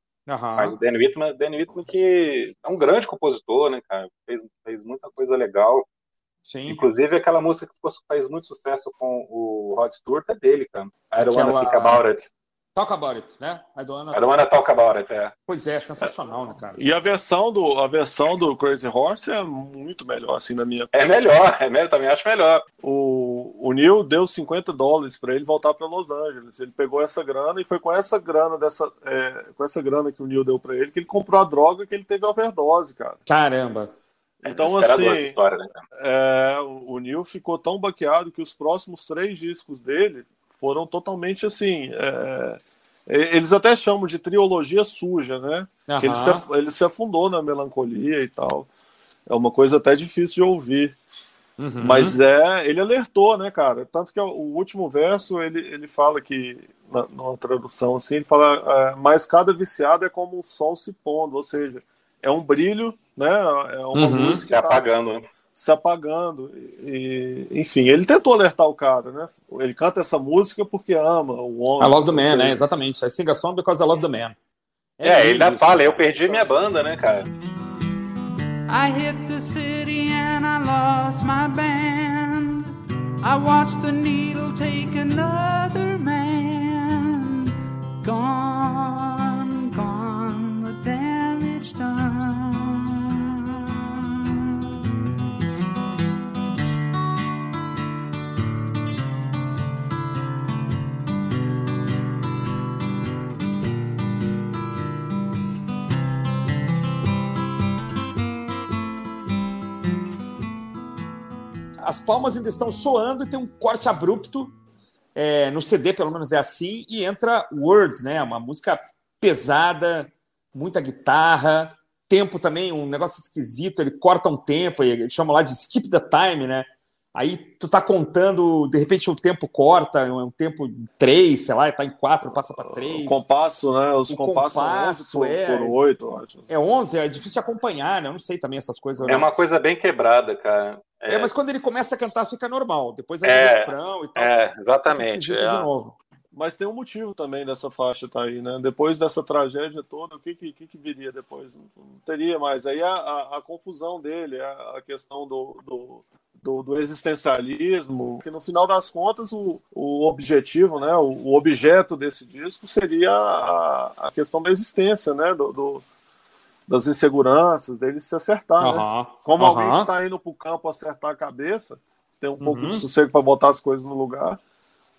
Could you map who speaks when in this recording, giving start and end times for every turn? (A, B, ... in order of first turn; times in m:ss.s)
0:00.3-0:00.8 A
0:00.6-0:05.8 B
0:06.5-0:06.8 A
0:06.7-0:12.3 B
0:11.2-0:12.0 A
0:12.8-0:14.2 A
0:14.1-0:15.3 B
0:15.5-0:16.8 A
0:16.8-0:20.9 C
0:20.9-0:22.6 B
0:22.8-0:33.2 C
0:33.3-0:34.0 A
0:34.4-0:35.4 C
0:34.4-0:35.7 B
0:36.0-0:48.7 C
0:45.9-0:46.5 A
0:49.3-0:51.0 C
0:51.6-0:52.2 A
0:51.8-1:04.9 C
1:03.9-1:04.4 A
1:04.4-1:05.2 B
1:05.6-1:12.6 C
1:11.8-1:14.4 A
1:15.0-1:16.5 A
1:15.0-1:17.3 B
1:18.7-1:34.6 D
1:51.8-1:54.5 A
1:55.2-2:13.2 A
2:12.6-2:16.5 C
2:14.1-2:15.8 A
2:16.5-2:19.3 A
2:19.0-2:21.3 B
2:21.1-2:24.3 A
2:23.2-2:25.7 B
2:24.8-2:26.0 A
2:26.3-2:45.8 C
2:46.7-2:54.4 C
2:48.6-2:49.9 A
2:52.4-2:52.8 A